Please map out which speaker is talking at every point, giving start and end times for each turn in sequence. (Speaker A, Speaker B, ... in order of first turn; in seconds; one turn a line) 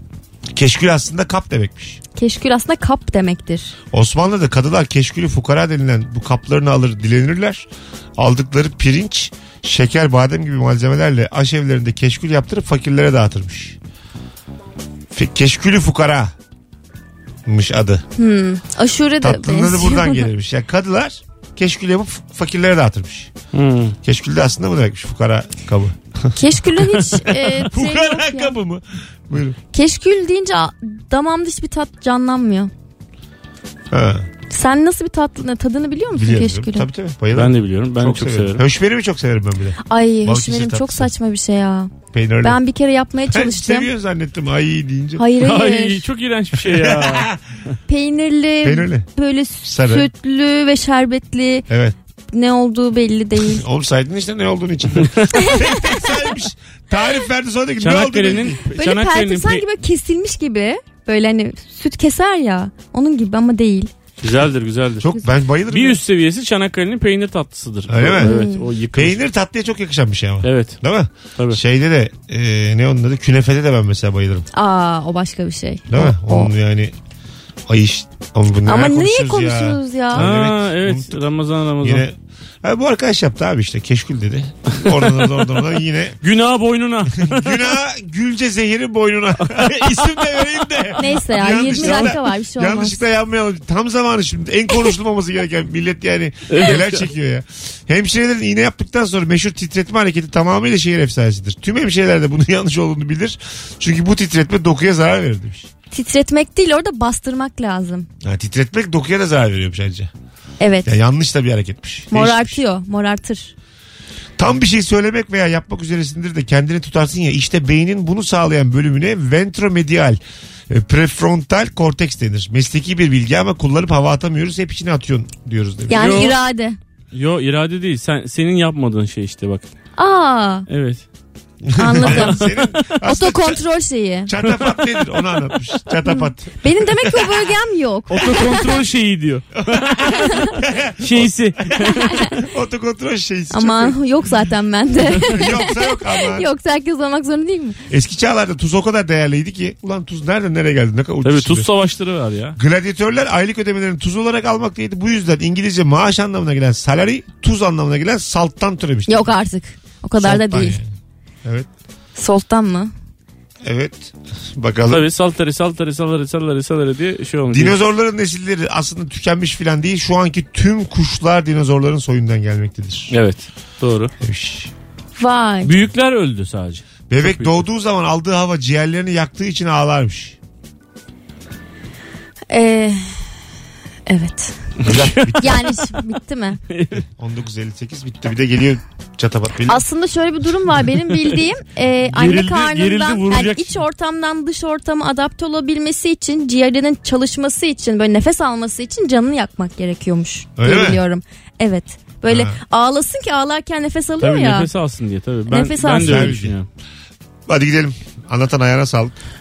Speaker A: 0.5-2.0
Speaker B: 2.2-3.8
Speaker A: 3.9-7.7
Speaker A: 8.2-13.8
Speaker A: 15.1-16.3
Speaker A: 17.5-18.0
Speaker B: 18.2-20.3
Speaker A: 19.2-23.3
Speaker C: 23.5-23.9
Speaker A: 24.0-29.6
Speaker B: 26.4-28.6
Speaker B: 29.7-32.7
Speaker A: 33.9-34.3
Speaker B: 34.5-36.9
Speaker A: 36.1-41.1
Speaker C: 37.3-38.6
Speaker B: 39.9-43.9
Speaker A: 42.1-42.6
Speaker A: 43.3-45.2
Speaker B: 45.2-46.0
Speaker C: 45.4-47.3
Speaker A: 46.6-47.4
Speaker B: 47.9-51.7
Speaker A: 48.6-49.1
Speaker A: 49.7-50.1
Speaker A: 51.7-52.0
Speaker B: 52.3-53.6
Speaker A: 53.4-58.6
Speaker B: 55.3-55.6
Speaker C: 57.8-59.6
Speaker B: 58.8-63.9
Speaker C: 64.2-65.0
Speaker A: 65.0-66.0
Speaker C: 65.7-69.2
Speaker A: 67.9-74.5
Speaker B: 68.2-68.6
Speaker C: 70.4-70.8
Speaker B: 74.5-76.5
Speaker A: 75.9-76.9
Speaker A: 77.7-81.2
Speaker B: 78.7-80.3
Speaker C: 80.2-82.1
Speaker A: 81.8-86.2
Speaker C: 86.2-87.8
Speaker A: 87.2-105.7
Speaker C: 89.6-90.0
Speaker B: 91.0-93.0
Speaker C: 91.7-92.1
Speaker C: 96.5-97.0
Speaker B: 105.9-108.1
Speaker A: 108.2-110.1
Speaker B: 110.6-110.9
Speaker A: 110.9-112.6
Speaker B: 112.1-113.5
Speaker A: 114.4-126.3
Speaker B: 125.9-126.8
Speaker C: 126.0-126.4
Speaker C: 127.1-129.7
Speaker B: 130.0-130.7
Speaker C: 130.7-131.0
Speaker A: 131.6-133.6
Speaker B: 131.8-134.3
Speaker C: 132.0-132.5
Speaker A: 134.3-137.5
Speaker C: 134.4-134.8
Speaker B: 136.0-138.6
Speaker C: 138.1-142.2
Speaker A: 139.7-144.0
Speaker B: 142.1-142.3
Speaker B: 143.5-147.8
Speaker A: 145.2-146.5
Speaker A: 147.9-151.7
Speaker C: 151.2-152.6
Speaker A: 152.6-159.3
Speaker B: 159.1-160.8
Speaker A: 160.2-160.8
Speaker B: 162.2-162.9
Speaker A: 163.6-165.1
Speaker C: 164.9-167.8
Speaker A: 167.5-173.2
Speaker C: 173.1-174.1
Speaker A: 174.2-174.7
Speaker B: 175.2-175.7
Speaker C: 175.6-177.6
Speaker A: 177.1-180.4
Speaker B: 182.5-183.2
Speaker B: 184.1-184.8
Speaker C: 184.8-185.5
Speaker A: 184.8-185.7
Speaker B: 185.4-186.6
Speaker C: 186.7-187.0
Speaker A: 187.2-189.8
Speaker B: 189.7-204.7
Speaker C: 192.1-193.8
Speaker A: 200.6-201.0
Speaker A: 202.3-202.6
Speaker C: 204.2-206.7
Speaker B: 205.5-206.3
Speaker A: 206.0-206.6
Speaker A: 207.5-209.1